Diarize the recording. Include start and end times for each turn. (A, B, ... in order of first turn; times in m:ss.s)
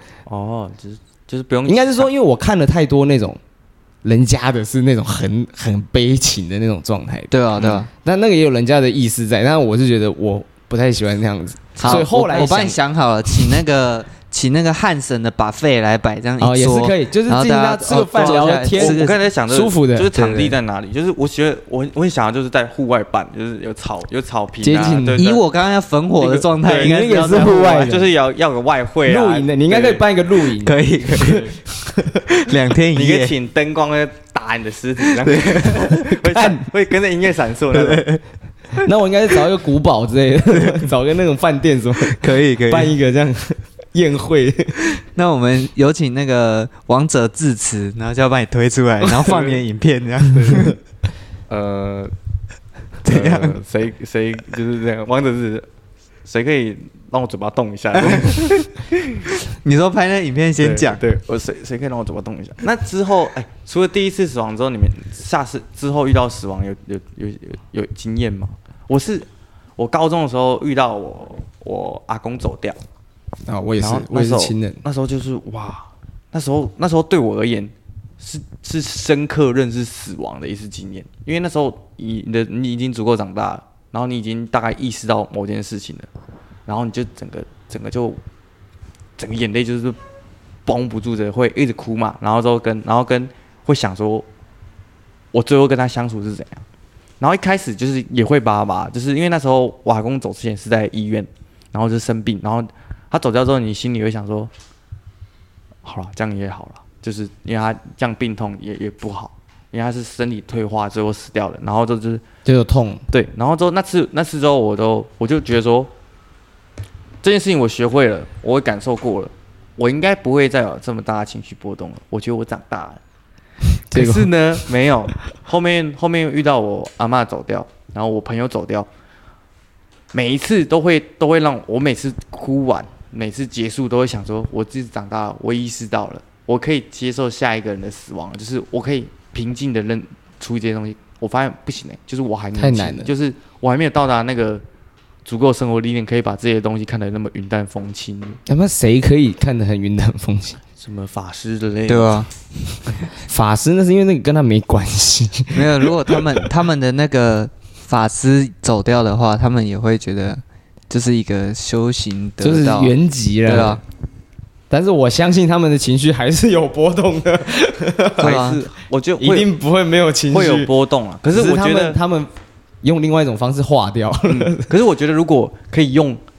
0:00.2-0:02.1 A
0:01.6-0:03.4 B
0:04.0-0:07.3 B
0:07.3-0:07.9 C
0:07.6-0:07.8 A
0:07.9-0:12.8 B
0:11.8-0:12.5 A
0:11.8-0:19.2 C
0:16.4-0:20.2 B
0:18.1-0:25.4 A
0:20.2-0:20.5 C
0:24.6-0:25.2 B
0:25.2-0:27.9 C
0:26.2-0:30.0 A
0:26.7-0:28.1 B
0:29.0-0:32.3 B
0:30.6-0:31.5 C
0:32.3-0:33.3 C
0:32.9-0:38.1 A
0:35.2-0:36.0 C
0:36.1-0:36.7 B
0:37.7-0:38.2 C
0:38.8-0:44.9 B
0:40.6-0:40.8 C
0:42.1-0:42.9 C
0:44.9-0:50.8 C
0:49.2-0:49.6 A
0:50.3-0:50.7 A
0:51.5-0:52.1 A
0:53.0-0:53.6 C
0:53.0-0:55.7 A
0:56.2-0:58.7 A
0:58.1-0:58.6 C
0:59.5-1:01.0 C
1:00.6-1:12.8 A
1:13.4-1:14.8 B
1:13.8-1:26.1 A
1:26.6-1:28.2 A
1:29.2-1:30.0 A
1:30.6-1:34.3 A
1:35.3-1:36.6 A
1:37.2-1:44.5 A
1:45.8-1:52.2 A
1:52.4-1:53.0 B
1:53.1-1:55.9 A
1:57.2-2:03.0 A
2:03.9-2:04.3 B
2:03.9-2:08.9 A
2:10.1-2:24.6 A
2:22.6-2:23.1 B
2:25.2-2:28.4 A
2:28.4-2:30.6 B
2:30.8-2:32.2 A
2:31.9-2:32.3 C
2:33.2-2:36.4 B
2:35.5-2:42.9 C
2:42.4-2:43.8 B
2:43.4-2:43.8 C
2:44.7-2:48.4 B
2:48.2-2:49.5 A
2:48.2-2:48.6 C
2:49.2-2:50.7 B
2:50.3-2:52.0 A
2:51.3-2:54.7 B
2:54.2-2:56.2 A